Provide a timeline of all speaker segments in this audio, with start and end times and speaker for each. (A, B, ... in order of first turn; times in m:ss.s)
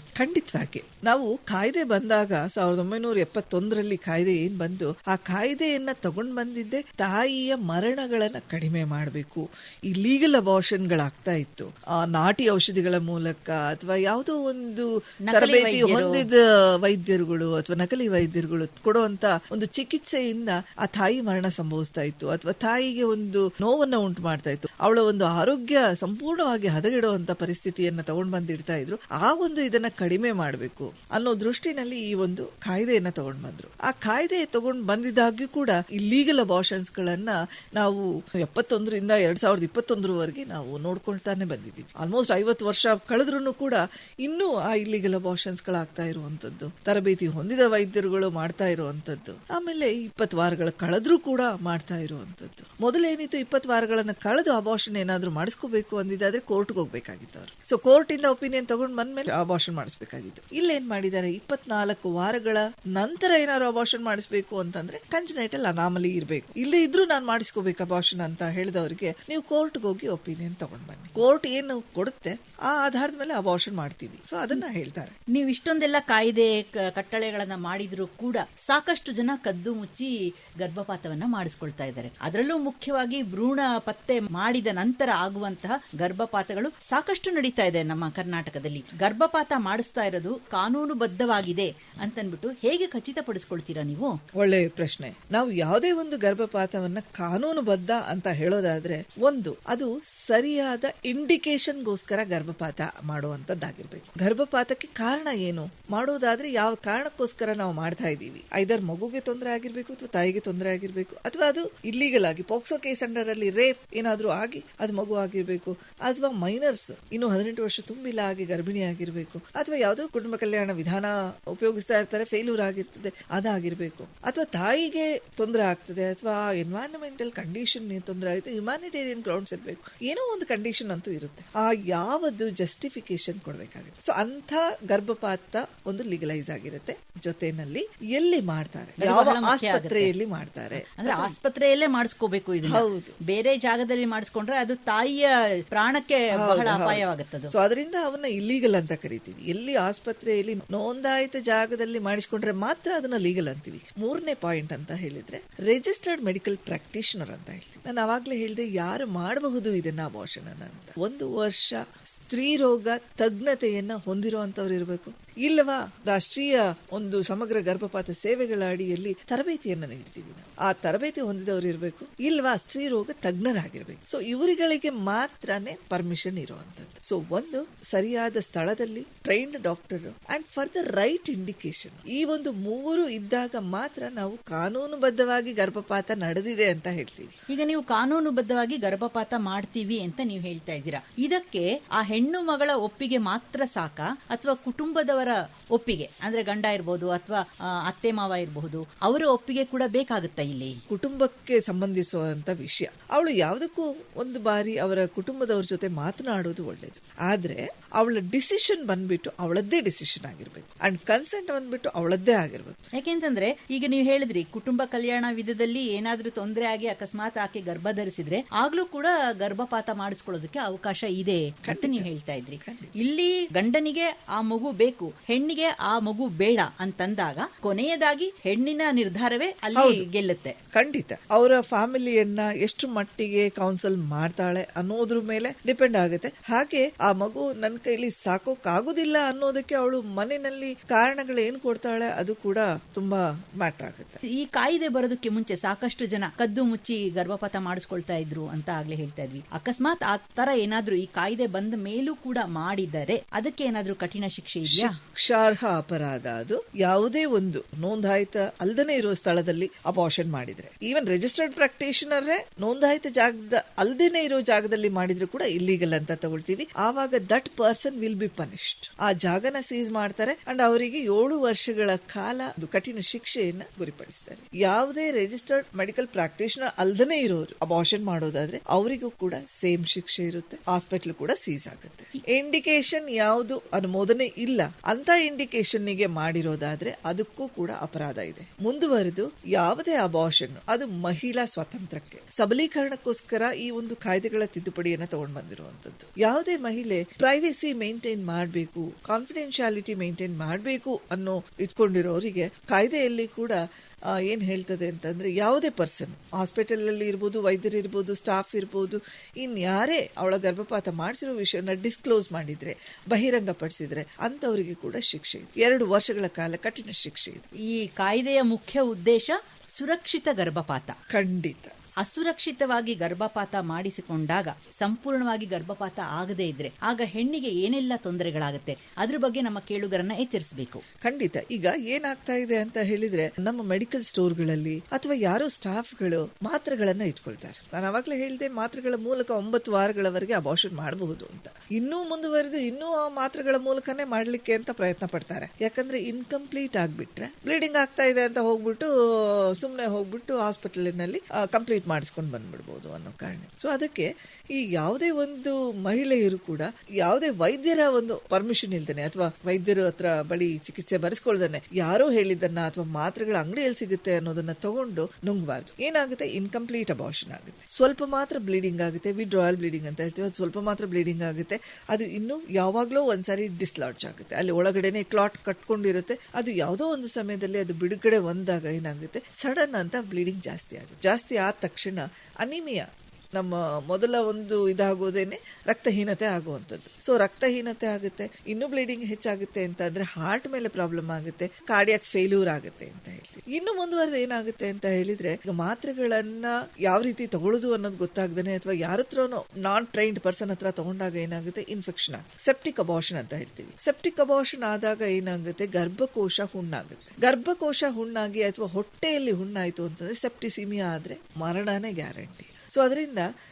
0:00.2-1:15.1 A
0:15.3-0:16.2 B
1:15.3-1:34.1 B
1:34.4-2:21.4 A
2:19.0-2:20.1 B
2:20.8-2:27.5 B
2:22.6-2:23.2 A
2:26.4-3:07.3 A
3:07.5-3:20.8 B
3:20.9-3:32.8 A
3:33.0-3:50.6 B
3:41.6-3:43.0 A
3:49.7-3:50.0 A
3:50.7-4:04.2 A
4:04.4-4:14.9 B
4:14.7-5:03.6 A
5:04.2-5:17.5 A
5:17.7-5:20.9 B
5:21.1-5:21.7 A
5:22.0-5:30.8 B
5:31.0-6:22.8 A
6:23.4-6:53.3 A